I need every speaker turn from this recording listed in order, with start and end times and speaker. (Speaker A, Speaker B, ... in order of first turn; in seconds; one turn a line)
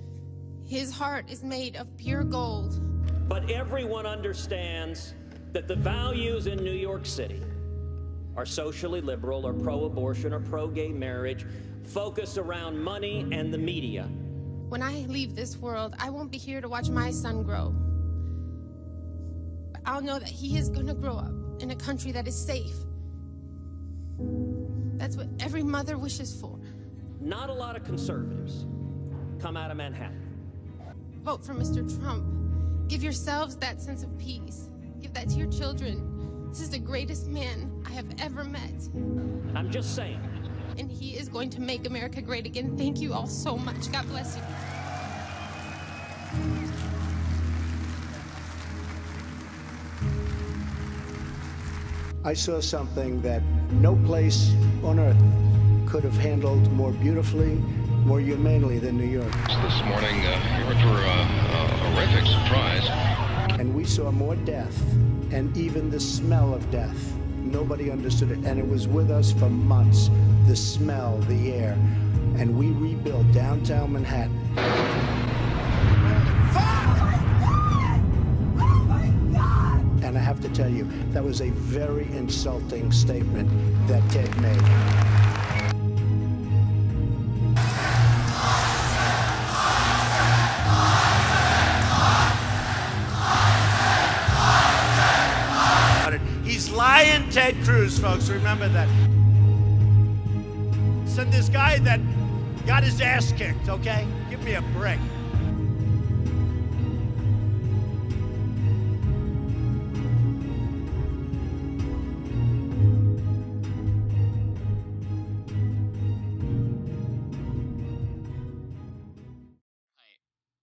Speaker A: 0.6-2.8
Speaker B: 3.3-7.5
Speaker B: 8.3-14.1
Speaker A: 14.7-17.8
Speaker A: 19.9-22.9
Speaker A: 25.0-26.6
Speaker B: 27.2-28.7
Speaker B: 29.4-30.2
Speaker A: 31.2-38.9
Speaker B: 39.5-40.3
Speaker A: 40.8-44.6
Speaker C: 52.2-55.2
Speaker C: 55.8-59.4
Speaker D: 59.5-62.9
Speaker C: 63.6-71.8
Speaker C: 72.3-74.4
Speaker C: 80.0-84.8
Speaker E: 96.1-98.9
Speaker E: 101.1-102.0
Speaker E: 102.7-105.0